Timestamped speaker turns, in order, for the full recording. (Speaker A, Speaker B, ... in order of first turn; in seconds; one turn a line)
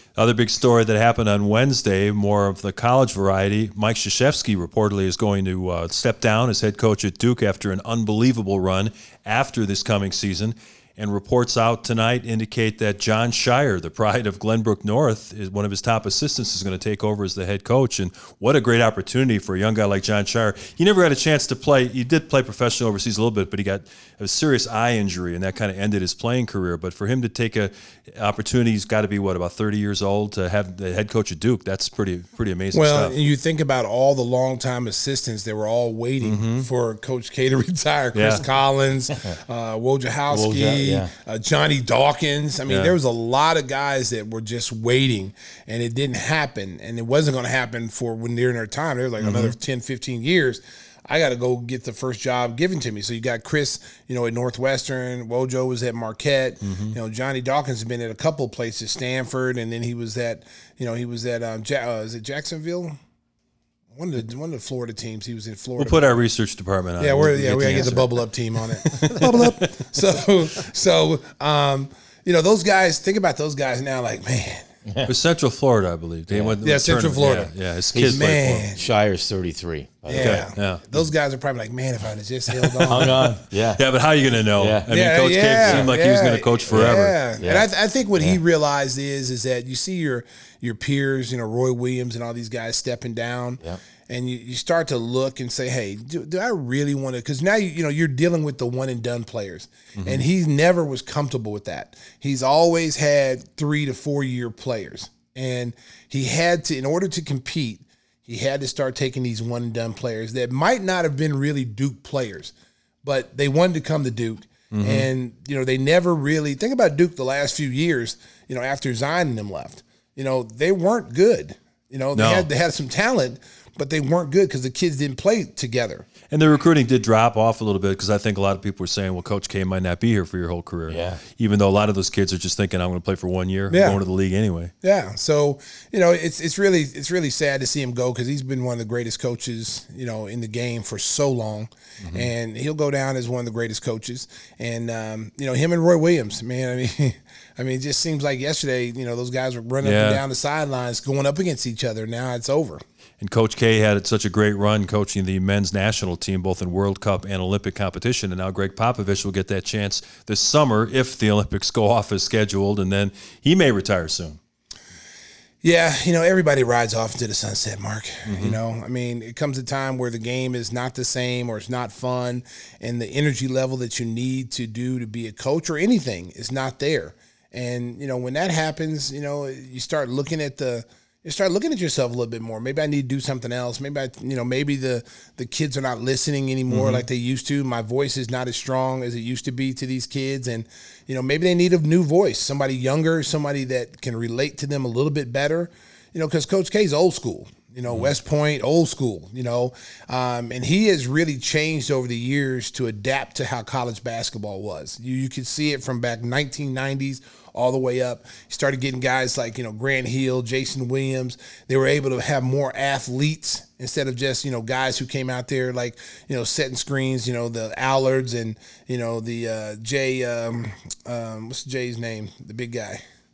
Speaker A: 0.2-33.1
Speaker B: 32.7-63.0
Speaker A: 36.2-36.7
Speaker A: 38.1-38.5
Speaker C: 40.3-41.1
Speaker A: 42.7-43.0
Speaker A: 49.2-49.5
Speaker A: 56.6-57.0
Speaker B: 63.9-66.2
Speaker A: 65.8-68.2
Speaker B: 67.0-74.7
Speaker A: 68.8-69.9
Speaker A: 75.1-78.7
Speaker B: 76.6-78.8
Speaker C: 77.9-81.0
Speaker B: 80.1-83.3
Speaker A: 80.1-80.8
Speaker A: 82.7-83.1
Speaker C: 82.9-83.8
Speaker A: 83.8-87.2
Speaker C: 84.6-84.9
Speaker B: 84.9-112.5
Speaker C: 85.6-85.9
Speaker C: 86.7-87.7
Speaker A: 100.0-100.2
Speaker B: 113.0-126.1
Speaker A: 114.7-115.1
Speaker A: 122.2-122.5
Speaker A: 126.3-134.7
Speaker C: 130.9-131.2
Speaker B: 133.7-134.0
Speaker B: 134.8-152.8
Speaker A: 142.0-142.3
Speaker A: 149.8-150.2
Speaker A: 153.2-164.4
Speaker B: 165.6-223.0
Speaker A: 168.3-168.6
Speaker A: 186.7-187.1